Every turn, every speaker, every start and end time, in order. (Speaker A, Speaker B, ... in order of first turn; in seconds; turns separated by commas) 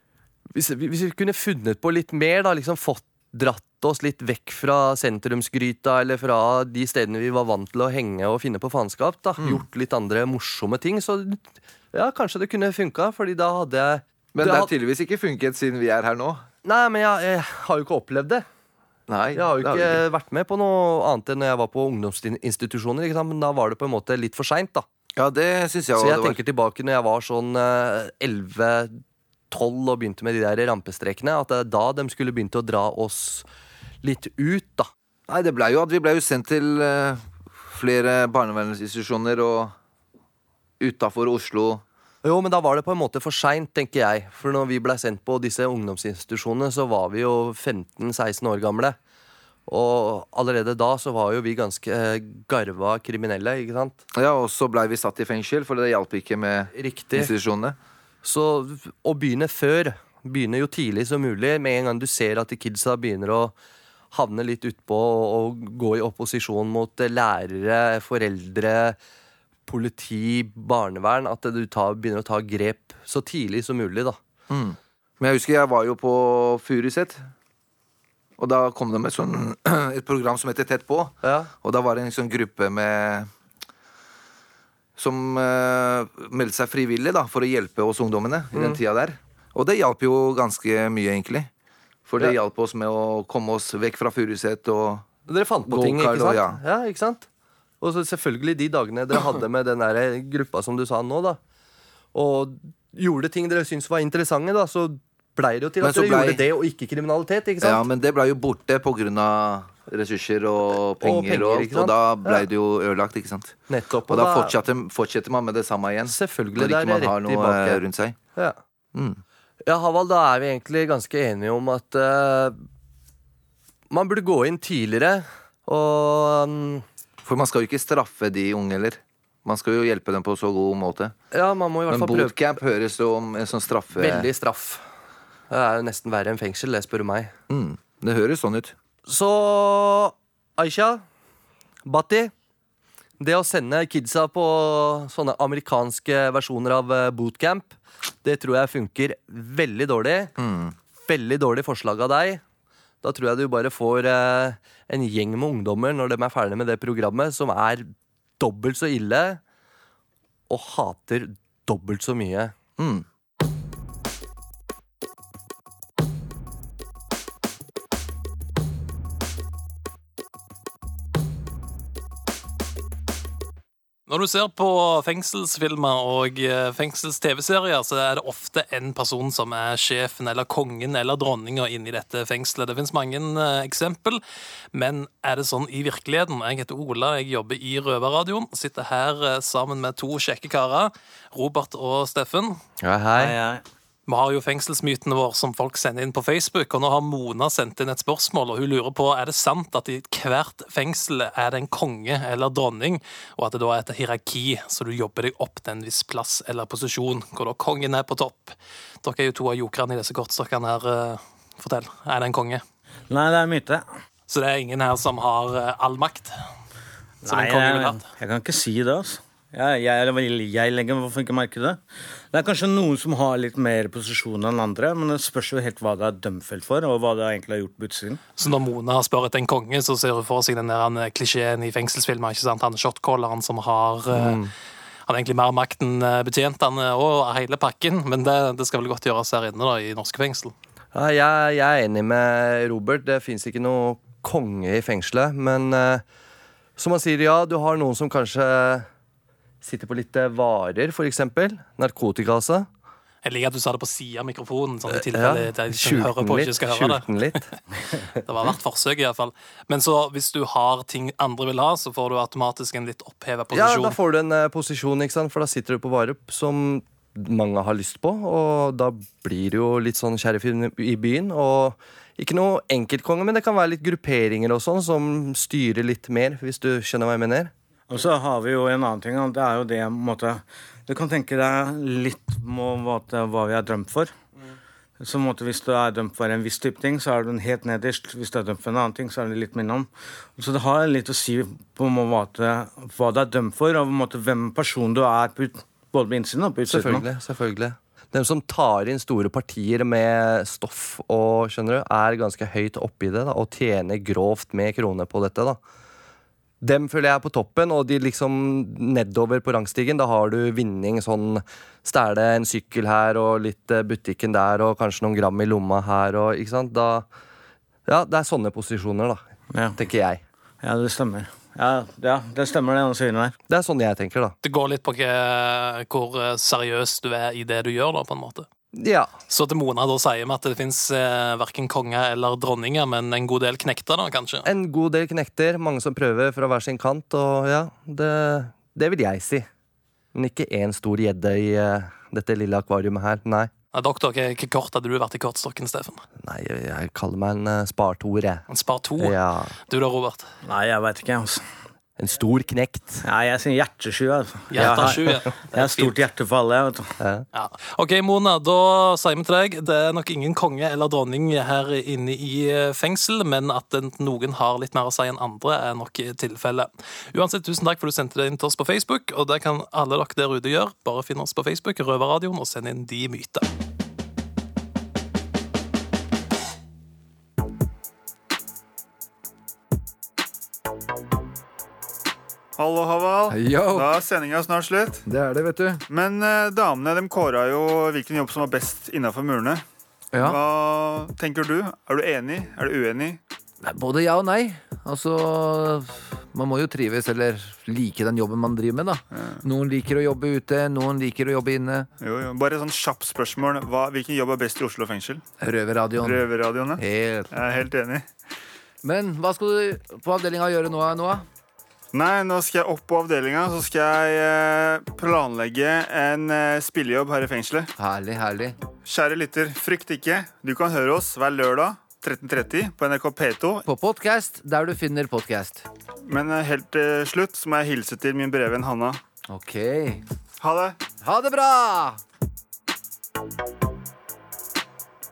Speaker A: 0.5-14.7, Speaker B: 14.3-16.4, Speaker A: 16.6-18.4, Speaker B: 19.1-20.0, Speaker A: 19.3-24.9, Speaker B: 25.1-26.4, Speaker A: 26.0-29.0, Speaker A: 29.5-33.5, Speaker A: 34.0-34.9, Speaker B: 35.3-39.7, Speaker B: 40.8-41.8, Speaker A: 42.2-49.0, Speaker A: 49.7-54.0, Speaker B: 54.1-57.8, Speaker A: 56.7-57.3, Speaker A: 58.2-63.5, Speaker A: 64.1-69.0, Speaker A: 69.7-74.2, Speaker B: 74.5-77.2, Speaker B: 78.4-83.3, Speaker A: 81.2-81.5, Speaker B: 85.0-91.5, Speaker A: 88.5-88.8, Speaker B: 92.1-95.1, Speaker A: 95.3-97.3, Speaker B: 95.7-96.6, Speaker A: 97.8-101.4, Speaker A: 102.1-107.8, Speaker B: 105.8-106.4, Speaker B: 107.6-118.2, Speaker A: 111.0-112.5, Speaker A: 113.7-114.6, Speaker A: 116.1-117.8, Speaker B: 118.9-119.2, Speaker A: 119.6-122.6, Speaker A: 123.9-126.8, Speaker B: 127.2-131.1, Speaker A: 131.3-132.3, Speaker B: 131.9-134.3, Speaker A: 134.0-134.8, Speaker A: 135.5-137.3, Speaker B: 137.5-138.7, Speaker A: 139.1-141.0, Speaker A: 141.8-142.3, Speaker A: 143.2-150.4, Speaker B: 150.4-150.7, Speaker A: 151.1-152.4, Speaker A: 153.0-159.4, Speaker A: 160.5-162.5, Speaker B: 162.8-163.1, Speaker C: 174.1-184.2, Speaker C: 184.7-192.6, Speaker A: 192.8-193.3, Speaker D: 193.2-193.6, Speaker C: 194.1-212.6, Speaker D: 213.1-213.8, Speaker C: 214.3-216.3, Speaker D: 217.2-228.2, Speaker C: 217.3-218.1, Speaker C: 228.4-234.4, Speaker A: 234.1-234.5, Speaker C: 235.1-240.5, Speaker A: 240.9-246.0, Speaker A: 246.8-248.9, Speaker A: 249.6-252.7, Speaker C: 253.2-257.4, Speaker A: 254.9-257.5, Speaker C: 258.2-264.0, Speaker A: 263.5-277.5, Speaker D: 277.9-284.1, Speaker D: 285.0-297.1, Speaker A: 296.7-305.6, Speaker A: 306.6-317.1, Speaker A: 317.9-319.2, Speaker D: 319.5-319.8, Speaker A: 319.8-320.2, Speaker D: 320.6-323.4, Speaker A: 323.5-324.4, Speaker C: 324.4-328.5, Speaker A: 328.7-329.1, Speaker C: 329.3-334.5, Speaker A: 334.4-339.5, Speaker A: 340.1-343.5, Speaker C: 343.7-346.0, Speaker A: 346.2-348.4, Speaker C: 348.5-350.3, Speaker A: 349.0-349.6, Speaker D: 350.4-351.4, Speaker A: 352.0-353.0, Speaker D: 353.0-356.9, Speaker C: 354.5-355.9, Speaker A: 354.6-355.1, Speaker A: 357.0-357.3, Speaker C: 357.3-373.5, Speaker E: 382.6-385.1, Speaker B: 383.3-383.9, Speaker B: 385.1-385.8, Speaker E: 385.9-389.6, Speaker B: 390.1-390.4, Speaker E: 390.2-393.2, Speaker B: 393.6-401.9, Speaker E: 399.1-399.4, Speaker E: 402.0-405.2, Speaker B: 405.4-406.2, Speaker E: 406.0-408.1, Speaker B: 406.8-407.3, Speaker B: 408.8-411.2, Speaker E: 411.9-417.7, Speaker B: 417.8-418.6, Speaker E: 418.9-423.6, Speaker B: 423.6-425.6, Speaker E: 426.1-429.0, Speaker B: 429.3-430.0, Speaker E: 430.4-430.8, Speaker B: 431.0-432.0